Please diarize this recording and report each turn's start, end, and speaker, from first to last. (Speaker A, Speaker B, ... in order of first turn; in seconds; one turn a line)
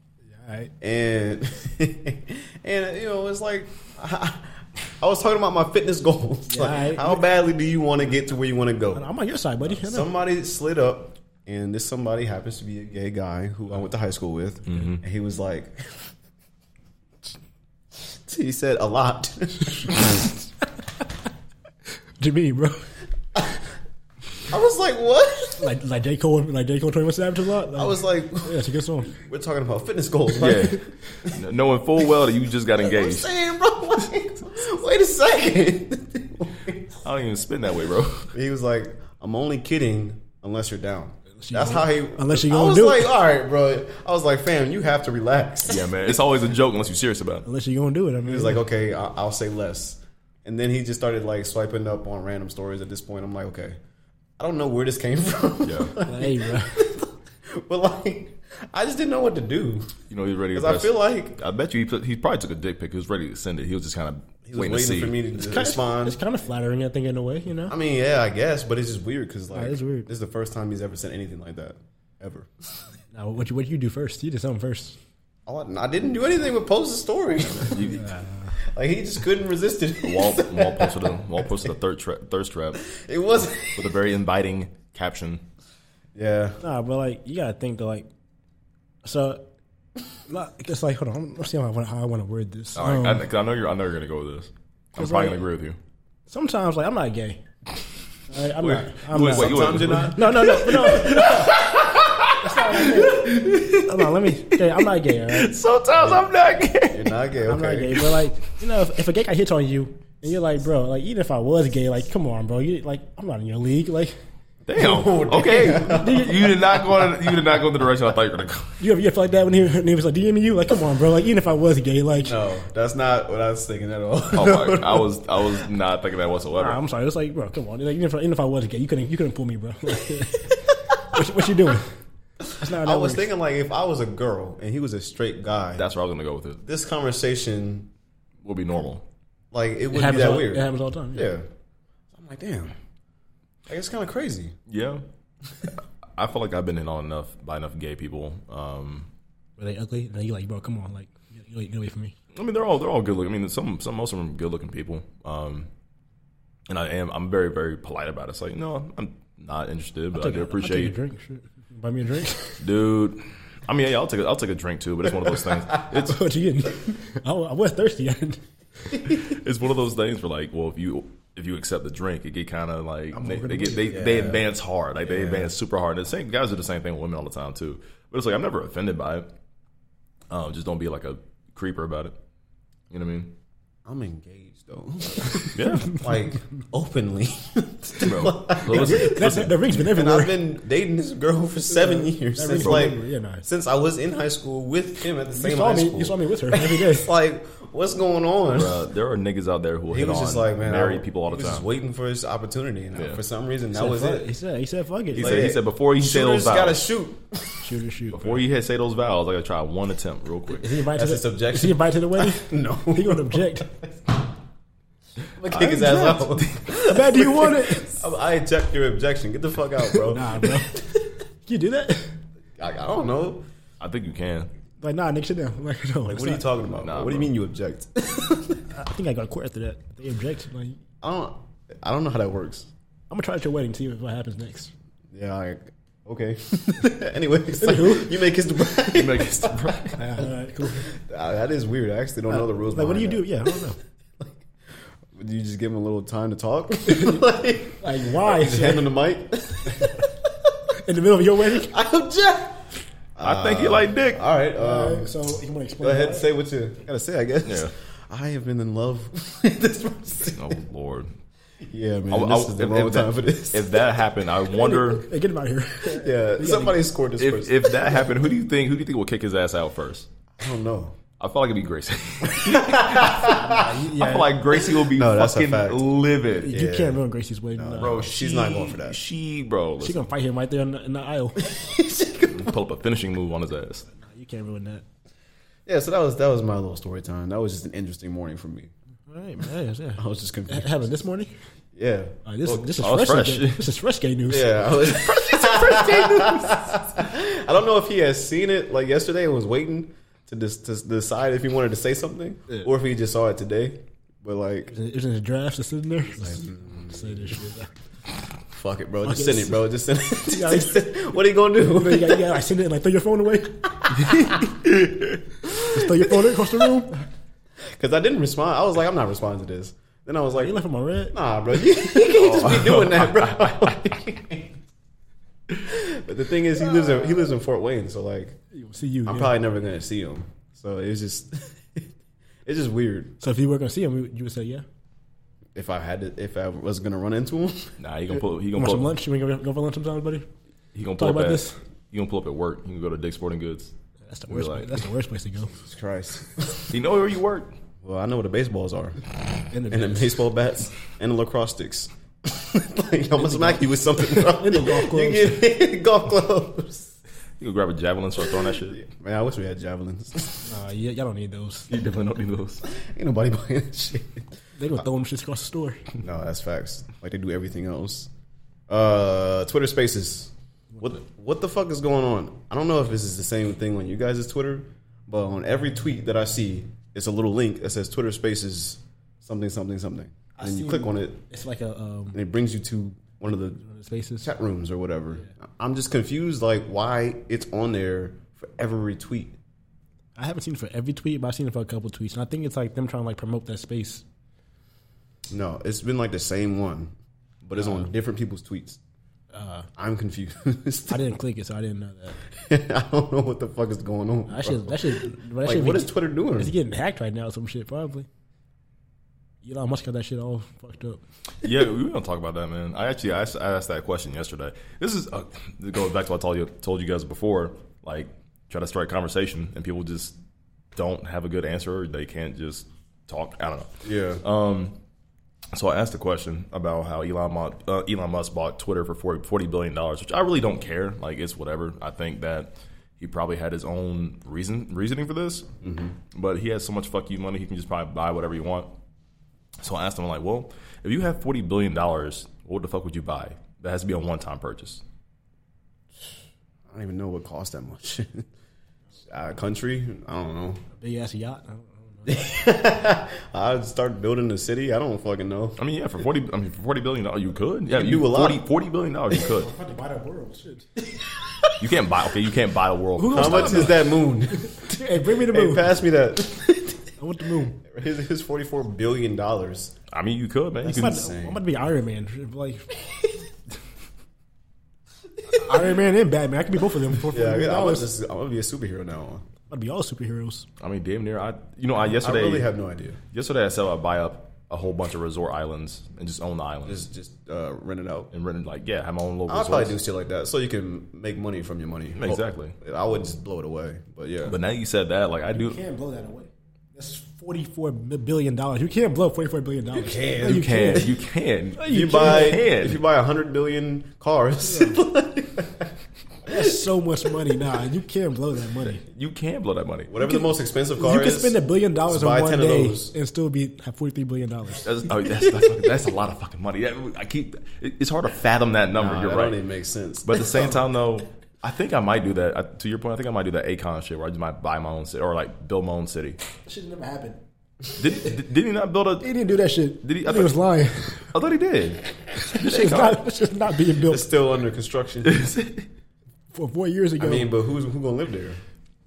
Speaker A: 0.3-0.7
Speaker B: 0.8-9.1
Speaker A: 6.5-7.2
Speaker A: 8.9-10.1
Speaker B: 9.6-16.0
Speaker C: 14.7-15.0
Speaker B: 18.3-20.2
Speaker A: 22.2-22.9
Speaker B: 24.5-25.6
Speaker A: 25.6-29.1
Speaker B: 27.8-31.3
Speaker C: 30.4-33.3
Speaker B: 32.8-36.8
Speaker C: 37.0-38.3
Speaker B: 38.3-46.0
Speaker A: 41.4-43.2
Speaker C: 45.7-47.5
Speaker A: 47.5-48.6
Speaker B: 48.2-53.8
Speaker B: 54.4-60.0
Speaker C: 55.6-56.0
Speaker A: 56.0-56.8
Speaker C: 60.1-65.3
Speaker B: 60.5-61.4
Speaker B: 64.5-66.2
Speaker A: 65.4-67.8
Speaker B: 67.7-72.5
Speaker A: 69.5-70.1
Speaker A: 73.1-75.0
Speaker B: 75.5-78.0
Speaker C: 77.6-78.0
Speaker A: 77.9-78.5
Speaker B: 78.7-81.7
Speaker C: 80.0-82.9
Speaker B: 82.9-83.9
Speaker C: 83.7-85.5
Speaker B: 86.2-86.6
Speaker A: 86.6-88.1
Speaker A: 89.0-89.5
Speaker A: 90.3-93.2
Speaker C: 92.8-95.8
Speaker A: 95.0-95.4
Speaker A: 96.3-97.4
Speaker A: 98.3-101.6
Speaker C: 98.6-107.1
Speaker B: 99.2-100.6
Speaker A: 102.4-105.5
Speaker B: 106.0-106.2
Speaker B: 106.9-108.1
Speaker A: 107.5-114.2
Speaker C: 114.7-118.8
Speaker B: 114.8-117.3
Speaker A: 115.9-116.4
Speaker A: 118.8-122.4
Speaker B: 122.2-125.4
Speaker C: 124.3-126.8
Speaker A: 126.6-131.9
Speaker A: 132.6-133.3
Speaker B: 132.6-135.9
Speaker C: 135.8-136.6
Speaker B: 136.6-137.9
Speaker C: 138.4-139.1
Speaker B: 139.5-141.5
Speaker A: 139.9-141.3
Speaker B: 142.1-142.8
Speaker B: 143.7-144.6
Speaker C: 144.7-145.0
Speaker C: 145.7-149.1
Speaker A: 149.6-152.2
Speaker C: 152.3-155.7
Speaker C: 156.7-160.9
Speaker A: 160.1-162.6
Speaker C: 162.6-166.2
Speaker A: 166.0-168.4
Speaker C: 169.0-179.3
Speaker A: 173.1-174.1
Speaker B: 173.9-174.5
Speaker B: 175.0-175.5
Speaker C: 180.3-182.2
Speaker C: 182.9-183.3
Speaker B: 183.9-198.9
Speaker C: 185.5-186.1
Speaker C: 188.0-189.6
Speaker A: 188.7-190.4
Speaker A: 191.7-193.5
Speaker A: 195.3-197.1
Speaker C: 198.5-201.7
Speaker B: 199.9-204.3
Speaker C: 202.9-203.2
Speaker A: 203.7-205.4
Speaker C: 205.2-206.9
Speaker B: 205.2-207.7
Speaker A: 207.6-208.4
Speaker C: 208.1-210.7
Speaker A: 210.6-213.7
Speaker B: 210.9-214.1
Speaker B: 215.4-220.9
Speaker C: 215.5-216.7
Speaker A: 216.8-218.0
Speaker A: 219.9-220.8
Speaker A: 221.5-222.2
Speaker B: 222.6-223.5
Speaker C: 223.8-224.5
Speaker A: 224.8-226.5
Speaker B: 226.0-228.6
Speaker C: 226.8-227.3
Speaker A: 228.7-230.8
Speaker B: 231.0-232.7
Speaker A: 233.1-234.7
Speaker B: 235.1-240.0
Speaker A: 237.6-238.2
Speaker C: 238.9-240.0
Speaker A: 240.0-240.9
Speaker B: 240.9-243.6
Speaker A: 242.3-243.8
Speaker B: 245.1-250.1
Speaker A: 246.9-247.2
Speaker A: 247.8-248.9
Speaker A: 250.8-251.7
Speaker B: 251.6-252.7
Speaker B: 253.2-255.2
Speaker C: 253.2-254.2
Speaker A: 254.6-256.3
Speaker B: 255.8-260.6
Speaker C: 257.4-257.7
Speaker C: 260.3-261.1
Speaker B: 261.6-263.8
Speaker C: 262.1-265.1
Speaker A: 264.5-266.8
Speaker B: 265.9-268.2
Speaker C: 267.2-270.1
Speaker B: 270.4-271.0
Speaker C: 271.2-273.4
Speaker B: 272.3-273.6
Speaker A: 273.4-274.4
Speaker C: 274.0-276.5
Speaker B: 274.7-279.0
Speaker A: 276.4-278.0
Speaker C: 277.8-280.1
Speaker A: 279.8-281.5
Speaker B: 281.4-282.6
Speaker C: 282.3-283.9
Speaker A: 284.0-284.8
Speaker B: 285.7-288.7
Speaker A: 289.1-291.3
Speaker B: 290.0-290.9
Speaker B: 291.8-292.2
Speaker A: 292.3-294.6
Speaker C: 292.5-293.7
Speaker B: 294.3-304.7
Speaker C: 294.9-296.8
Speaker A: 304.7-307.7
Speaker B: 306.2-307.4
Speaker B: 308.5-312.3
Speaker A: 309.1-309.7
Speaker A: 310.3-310.9
Speaker A: 311.6-313.7
Speaker B: 313.8-314.6
Speaker B: 315.6-316.5
Speaker A: 315.7-316.9
Speaker B: 317.7-324.6
Speaker A: 320.4-321.2
Speaker C: 322.0-323.7
Speaker B: 325.6-328.4
Speaker A: 328.5-329.4
Speaker B: 329.1-331.9
Speaker B: 332.5-333.2
Speaker A: 333.2-334.6
Speaker B: 335.6-337.8
Speaker C: 337.8-339.0
Speaker A: 338.5-340.3
Speaker C: 340.7-343.7
Speaker A: 341.0-341.6
Speaker A: 344.1-345.5
Speaker C: 344.3-344.9
Speaker B: 345.6-346.8
Speaker C: 346.7-347.5
Speaker B: 347.8-349.0
Speaker A: 349.5-350.2
Speaker B: 349.7-356.9
Speaker A: 353.2-355.4
Speaker C: 357.4-358.8
Speaker B: 358.4-360.5
Speaker A: 360.4-361.7
Speaker C: 361.7-362.6
Speaker B: 362.7-364.2
Speaker A: 364.6-365.8
Speaker B: 366.0-368.1
Speaker B: 368.7-381.2
Speaker A: 380.4-382.2
Speaker B: 382.1-383.6
Speaker A: 383.5-384.3
Speaker B: 384.2-389.4
Speaker A: 390.2-394.0
Speaker B: 395.3-398.8
Speaker A: 399.3-399.7
Speaker B: 399.8-401.1
Speaker A: 400.9-402.2
Speaker B: 402.3-406.6
Speaker A: 404.3-408.1
Speaker A: 409.4-411.0
Speaker C: 411.4-420.2
Speaker C: 420.8-424.8
Speaker B: 423.8-424.2
Speaker C: 425.5-435.5
Speaker B: 435.6-435.9
Speaker C: 436.1-438.7
Speaker C: 439.6-444.8
Speaker B: 446.7-448.3
Speaker B: 449.1-450.6
Speaker A: 450.8-452.2
Speaker B: 452.1-455.6
Speaker C: 455.6-459.5
Speaker B: 457.7-458.5
Speaker A: 459.2-460.7
Speaker C: 461.6-463.8
Speaker A: 463.0-465.7
Speaker B: 463.1-466.8
Speaker A: 467.0-467.6
Speaker B: 467.6-469.8
Speaker C: 469.9-471.0
Speaker A: 470.6-472.9
Speaker B: 470.6-471.4
Speaker A: 475.3-477.9
Speaker B: 477.1-479.2
Speaker A: 479.5-480.5
Speaker C: 480.6-482.5
Speaker B: 481.9-483.0
Speaker C: 483.1-486.9
Speaker B: 486.7-488.1
Speaker C: 488.1-489.8
Speaker B: 489.3-494.4
Speaker C: 492.0-492.6
Speaker C: 494.3-495.6
Speaker A: 495.3-500.9
Speaker B: 499.7-500.9
Speaker C: 500.2-502.8
Speaker A: 501.6-502.3
Speaker B: 501.7-505.7
Speaker A: 504.5-504.8
Speaker A: 506.3-508.8
Speaker C: 508.9-509.9
Speaker B: 509.9-512.9
Speaker A: 510.8-514.6
Speaker C: 514.6-519.4
Speaker B: 518.7-520.6
Speaker C: 520.0-526.2
Speaker A: 526.5-527.2
Speaker C: 527.8-529.2
Speaker A: 529.0-531.0
Speaker C: 529.8-530.5
Speaker C: 531.0-533.1
Speaker A: 532.3-534.1
Speaker B: 533.8-535.3
Speaker C: 535.0-535.7
Speaker A: 536.3-537.3
Speaker B: 537.0-538.4